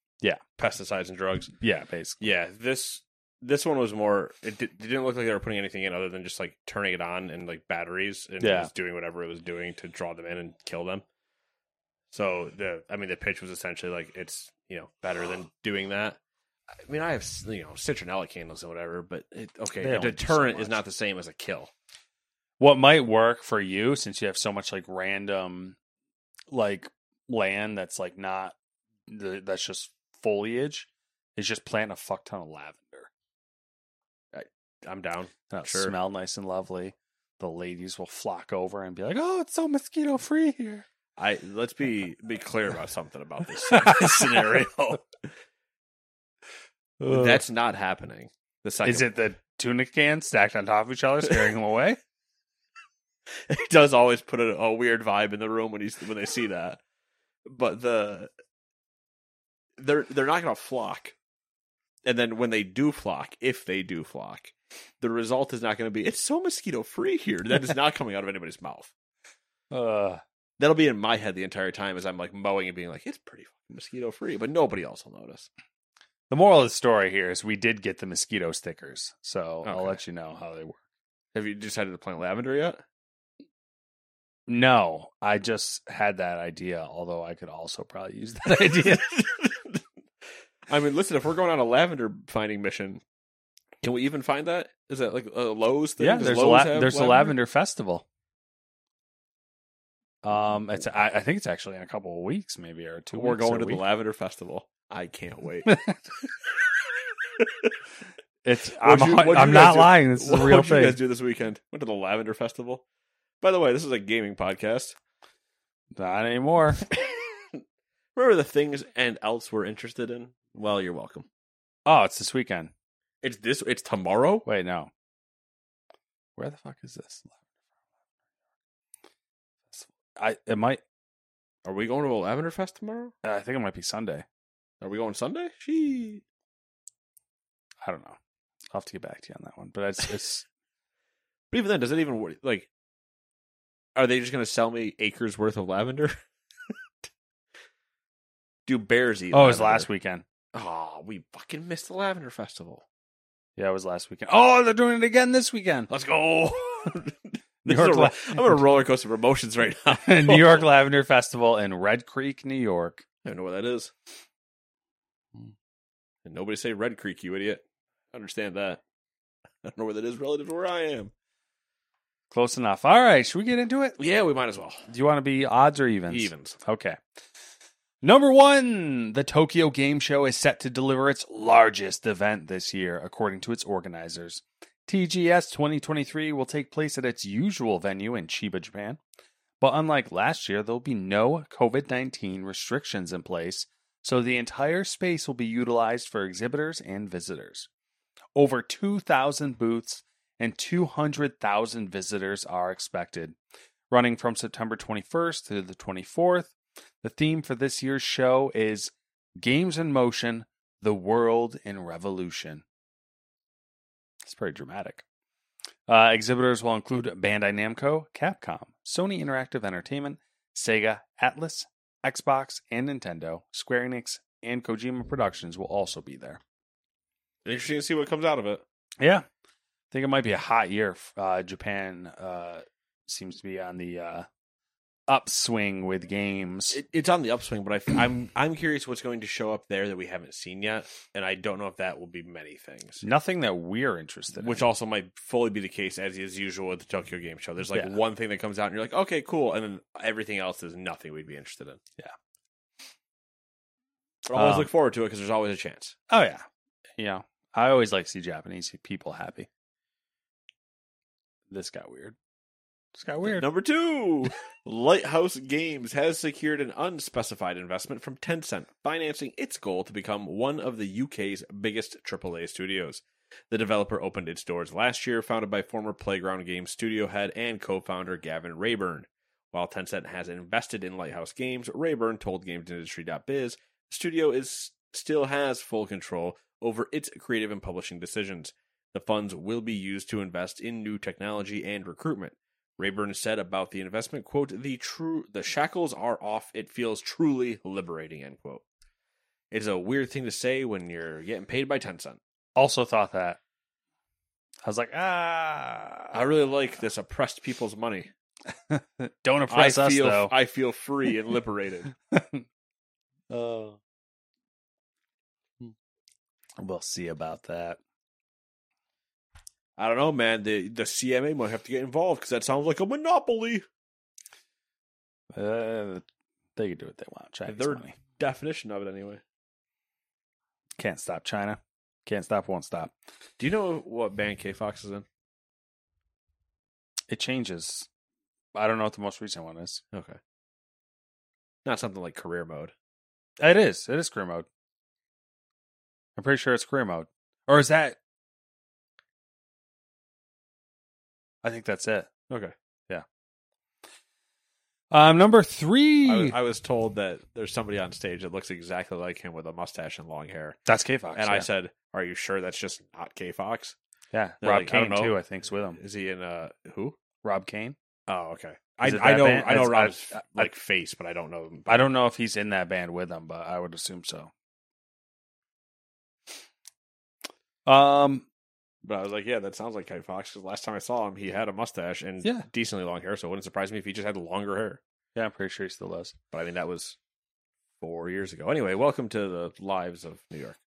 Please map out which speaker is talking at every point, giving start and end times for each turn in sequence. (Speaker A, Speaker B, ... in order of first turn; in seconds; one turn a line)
Speaker A: 0.6-1.5
Speaker B: 1.6-2.3
Speaker A: 2.2-11.0
Speaker B: 8.4-8.7
Speaker A: 12.1-16.2
Speaker A: 16.9-21.7
Speaker B: 19.8-20.8
Speaker B: 22.6-25.8
Speaker B: 26.5-28.5
Speaker B: 29.1-33.1
Speaker A: 34.3-35.9
Speaker B: 35.5-40.8
Speaker A: 41.2-45.0
Speaker B: 43.8-44.7
Speaker B: 47.0-47.4
Speaker A: 47.1-49.1
Speaker B: 48.8-52.0
Speaker A: 53.5-56.8
Speaker A: 57.5-58.3
Speaker A: 59.8-61.1
Speaker A: 62.0-68.9
Speaker B: 69.7-70.2
Speaker A: 70.6-75.5
Speaker B: 76.3-80.8
Speaker A: 79.6-80.0
Speaker A: 81.3-82.8
Speaker B: 84.5-89.2
Speaker A: 88.7-89.8
Speaker A: 90.7-93.0
Speaker A: 93.8-97.3
Speaker B: 96.0-98.0
Speaker B: 100.2-103.8
Speaker A: 103.1-105.8
Speaker B: 105.7-106.0
Speaker A: 107.4-107.7
Speaker B: 108.4-111.0
Speaker A: 108.8-112.8
Speaker A: 113.4-114.9
Speaker B: 116.0-116.8
Speaker A: 116.9-117.6
Speaker A: 118.2-121.3
Speaker B: 121.8-122.7
Speaker A: 123.2-124.5
Speaker B: 124.5-124.9
Speaker B: 126.4-127.3
Speaker B: 129.7-130.8
Speaker A: 131.6-133.1
Speaker B: 133.2-134.2
Speaker A: 134.8-136.2
Speaker B: 137.8-138.2
Speaker B: 138.7-140.4
Speaker A: 141.5-142.7
Speaker A: 143.9-146.2
Speaker A: 148.7-149.9
Speaker B: 149.3-150.2
Speaker A: 150.5-152.8
Speaker B: 153.6-155.9
Speaker A: 155.9-160.7
Speaker B: 157.7-158.6
Speaker B: 159.9-163.0
Speaker A: 163.2-163.9
Speaker A: 166.2-168.8
Speaker A: 169.6-171.1
Speaker B: 172.3-174.0
Speaker A: 174.0-174.9
Speaker B: 174.9-177.0
Speaker A: 176.1-176.6
Speaker B: 178.0-189.0
Speaker B: 189.6-197.7
Speaker B: 198.3-203.3
Speaker B: 203.9-212.6
Speaker B: 214.2-215.0
Speaker B: 215.9-226.4
Speaker A: 227.4-228.6
Speaker B: 229.0-229.2
Speaker B: 229.9-234.3
Speaker B: 235.1-236.8
Speaker A: 236.7-243.0
Speaker B: 243.0-244.6
Speaker A: 244.3-251.8
Speaker A: 254.2-255.9
Speaker B: 254.3-254.7
Speaker B: 256.1-256.4
Speaker B: 257.0-259.5
Speaker B: 261.5-262.1
Speaker B: 262.9-263.4
Speaker A: 263.2-298.6
Speaker A: 299.5-302.2
Speaker B: 302.6-303.4
Speaker B: 304.6-306.2
Speaker A: 306.1-308.1
Speaker B: 308.7-310.3
Speaker A: 309.5-311.9
Speaker B: 312.1-312.4
Speaker B: 313.3-313.8
Speaker B: 316.6-317.8
Speaker A: 319.8-323.6
Speaker B: 325.3-326.0
Speaker B: 326.6-327.9
Speaker A: 327.5-329.2
Speaker B: 330.8-332.9
Speaker A: 333.4-335.0
Speaker B: 337.1-337.9
Speaker B: 338.5-339.8
Speaker A: 339.9-340.2
Speaker A: 341.6-342.7
Speaker B: 343.4-344.4
Speaker B: 346.2-348.0
Speaker B: 351.4-352.1
Speaker B: 354.9-356.3
Speaker A: 356.0-360.6
Speaker B: 360.6-361.5
Speaker A: 361.1-363.7
Speaker B: 364.1-365.8
Speaker A: 364.4-365.2
Speaker A: 365.8-367.0
Speaker B: 367.2-367.8
Speaker A: 368.1-371.9
Speaker B: 368.8-370.5
Speaker B: 371.7-374.3
Speaker B: 377.6-378.2
Speaker A: 378.8-384.8
Speaker B: 385.1-386.1
Speaker A: 386.3-386.9
Speaker A: 387.8-390.6